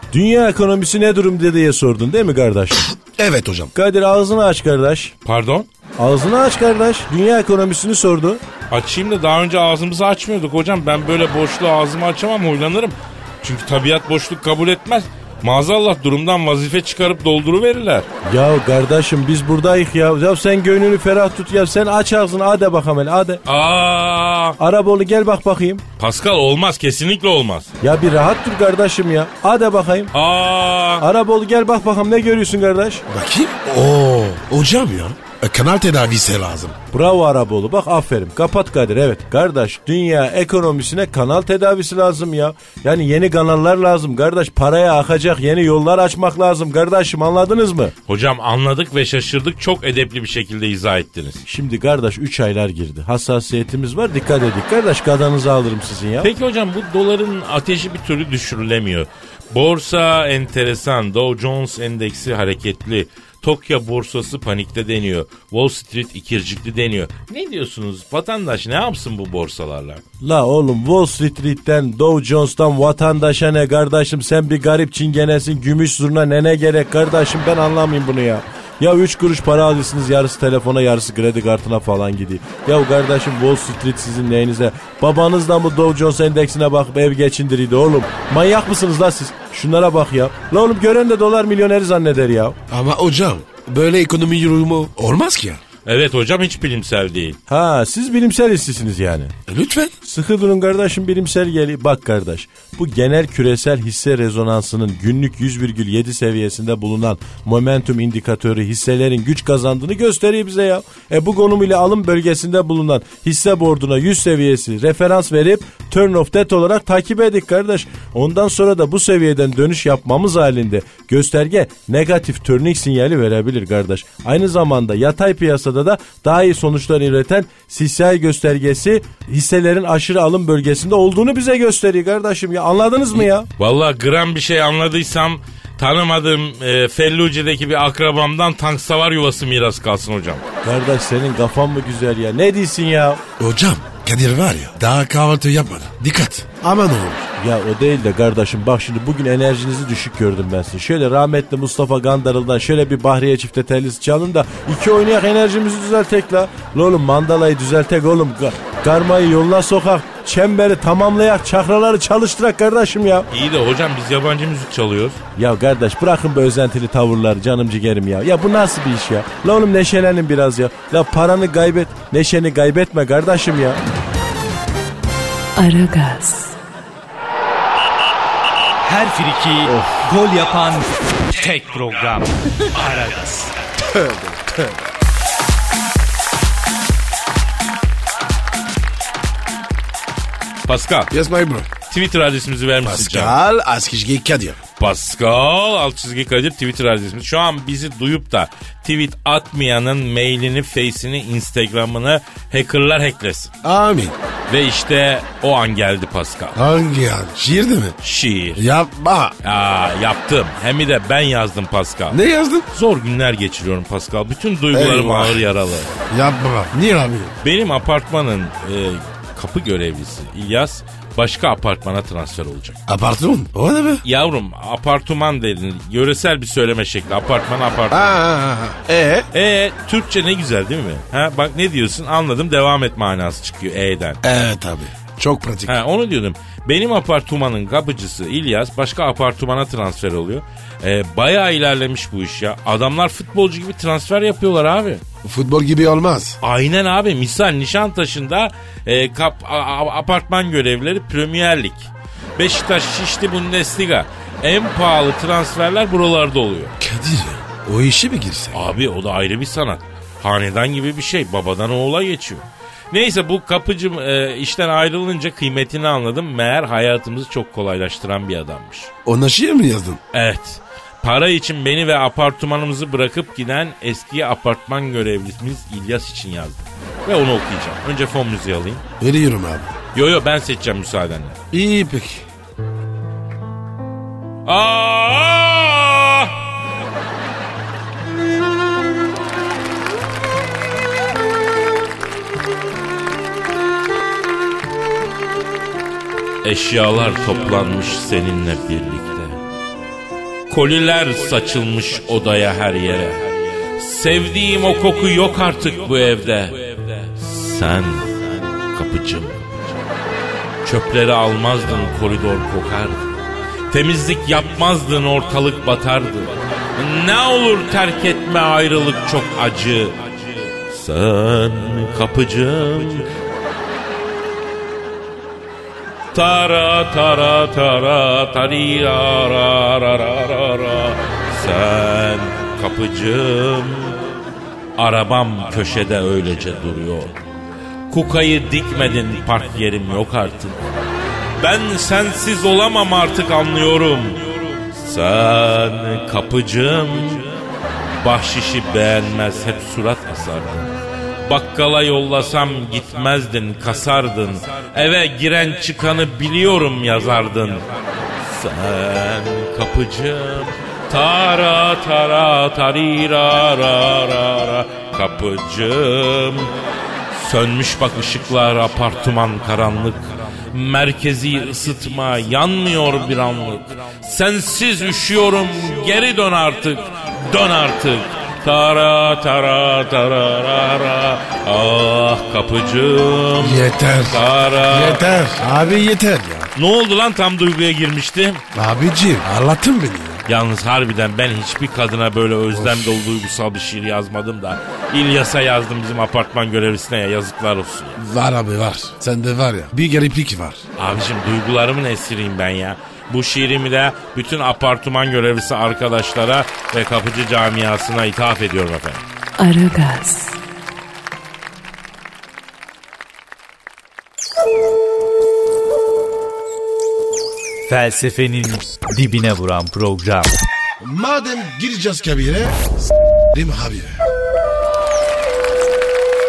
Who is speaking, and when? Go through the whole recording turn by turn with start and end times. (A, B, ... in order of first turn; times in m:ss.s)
0:00.1-0:02.9 A
0:03.0-0:03.7 B
0:03.7-0:05.1 A
0:05.2-0:05.7 C
0:06.0-0:08.4 A
0:08.7-0:18.1 C
0:18.2-0:23.4 A
0:23.5-0:24.6 C
0:24.6-0:25.8 A
0:26.0-0:27.7 C
0:27.8-0:30.1 A
0:30.1-0:31.1 C
0:31.0-0:33.0 A
0:33.1-0:36.8 B
0:36.9-0:47.9 A
0:48.1-0:51.4 C
0:51.5-0:56.3 A
0:56.2-1:10.0 C
1:10.2-1:32.6 A
1:32.7-1:35.6 B
1:35.9-1:37.4 C
1:37.5-1:39.3 A
1:39.5-1:39.9 B
1:40.0-2:13.5 A
2:13.2-2:20.4 C
2:20.6-2:23.2 A
2:23.4-2:27.3 B
2:27.4-2:43.3 A
2:43.3-2:45.2 C
2:45.4-2:53.8 A
2:55.6-2:56.6 D
2:59.0-2:59.7 E
3:00.4-3:00.6 E
3:01.4-3:03.5 E
3:03.8-3:04.7 B
3:10.7-3:11.1 C
3:11.1-3:11.7 B
3:11.9-3:13.4 C
3:12.8-3:14.6 B
3:14.8-3:23.5 C
3:23.6-3:24.2 B
3:24.5-3:26.6 C
3:26.6-3:28.0 B
3:28.0-3:28.6 C
3:28.6-3:29.4 B
3:29.4-3:32.2 C
3:32.1-3:32.7 B
3:32.7-3:35.9 C
3:34.7-3:35.4 B
3:36.1-3:37.4 B
3:37.4-3:42.8 C
3:42.9-3:44.0 B
3:44.0-3:48.1 C
3:47.9-3:49.3 B
3:49.3-3:54.2 C
3:54.2-3:55.8 B
3:55.7-4:05.0 C
4:05.2-4:06.4 B
4:06.4-4:16.8 C
4:16.8-4:18.6 B
4:18.5-4:28.9 C
4:29.0-4:30.0 B
4:30.1-4:38.8 C
4:39.0-4:39.7 B
4:39.9-4:41.4 C
4:41.5-4:42.3 B
4:44.5-4:46.5 C
4:56.4-4:59.4 C
5:00.5-5:09.8 C
5:10.6-5:13.1 C
5:13.7-5:23.2 C
5:26.1-5:34.0 C
5:34.8-5:37.2 C
5:37.9-5:40.6 C
5:41.4-5:47.4 C
5:48.0-5:50.7 C
5:51.3-6:06.5 C
6:07.1-6:25.4 C
6:23.4-6:26.5 B
6:26.6-6:28.4 C
6:28.5-6:30.2 B
6:30.3-6:38.0 C
6:32.5-6:33.0 B
6:38.0-6:40.6 B
6:40.8-6:49.0 C
6:49.4-6:50.4 D
7:00.8-7:02.6 B
7:03.3-7:04.0 B